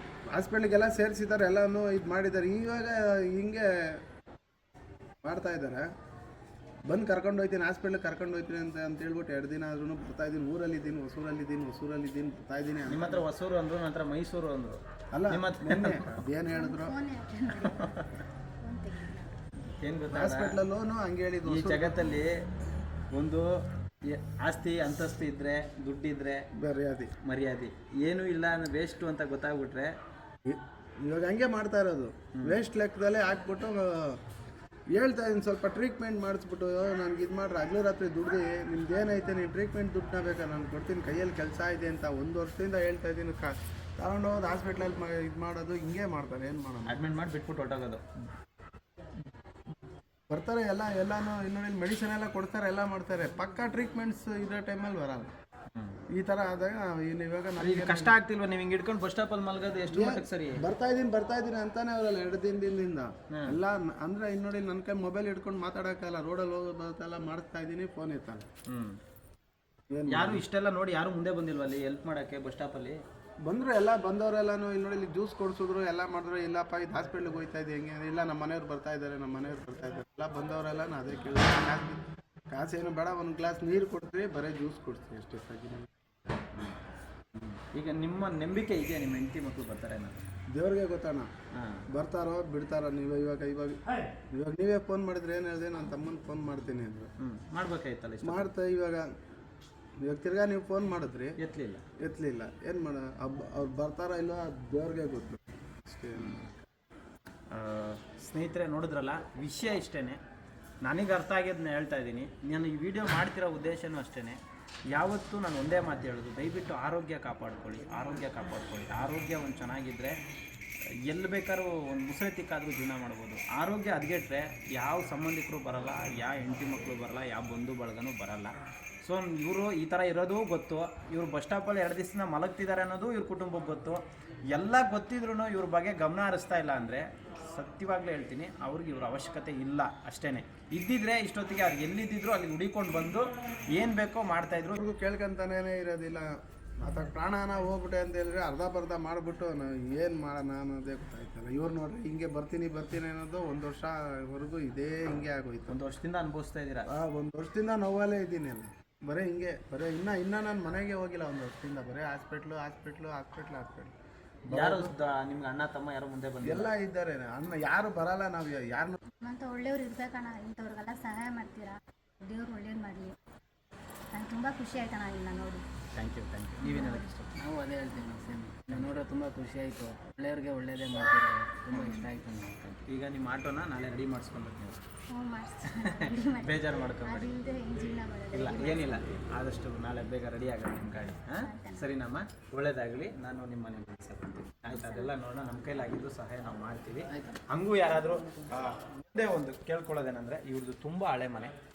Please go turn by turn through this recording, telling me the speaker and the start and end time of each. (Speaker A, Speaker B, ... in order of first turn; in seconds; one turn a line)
Speaker A: 0.3-4.0
Speaker A: 5.2-5.8
Speaker A: 6.9-13.2
Speaker B: 12.9-16.2
Speaker A: 15.1-16.9
Speaker C: 16.5-18.0
Speaker B: 17.6-18.1
Speaker C: 18.6-19.3
Speaker B: 19.8-20.6
Speaker A: 20.1-22.0
Speaker B: 21.4-22.3
Speaker B: 23.1-23.5
Speaker B: 24.1-26.4
Speaker A: 26.6-27.1
Speaker B: 27.2-29.9
Speaker A: 30.4-34.2
Speaker A: 34.9-47.0
Speaker B: 46.9-48.0
Speaker A: 50.3-55.3
Speaker B: 55.7-56.0
Speaker A: 56.1-58.1
Speaker B: 57.6-60.6
Speaker A: 59.9-68.4
Speaker B: 63.3-63.6
Speaker B: 68.7-69.0
Speaker A: 69.9-70.4
Speaker B: 70.1-73.0
Speaker A: 73.5-85.9
Speaker B: 87.3-90.2
Speaker A: 90.5-91.3
Speaker B: 91.5-91.8
Speaker A: 91.9-93.8
Speaker A: 94.3-97.1
Speaker B: 97.2-98.5
Speaker A: 98.2-99.0
Speaker A: 100.0-101.3
Speaker B: 101.4-101.8
Speaker A: 102.0-106.4
Speaker B: 106.1-106.5
Speaker B: 107.5-110.2
Speaker B: 110.8-114.4
Speaker B: 114.9-120.2
Speaker B: 121.1-144.8
Speaker A: 144.8-155.8
Speaker B: 155.7-156.9
Speaker A: 156.9-163.9
Speaker A: 164.5-164.9
Speaker B: 164.5-166.7
Speaker A: 166.4-169.0
Speaker C: 169.2-173.1
Speaker C: 174.1-175.6
Speaker B: 175.9-177.2
Speaker C: 176.6-177.2
Speaker D: 176.7-182.8
Speaker B: 182.9-184.8
Speaker C: 185.1-189.0
Speaker B: 185.7-187.3
Speaker B: 188.3-201.5
Speaker C: 191.4-191.9
Speaker C: 194.7-195.1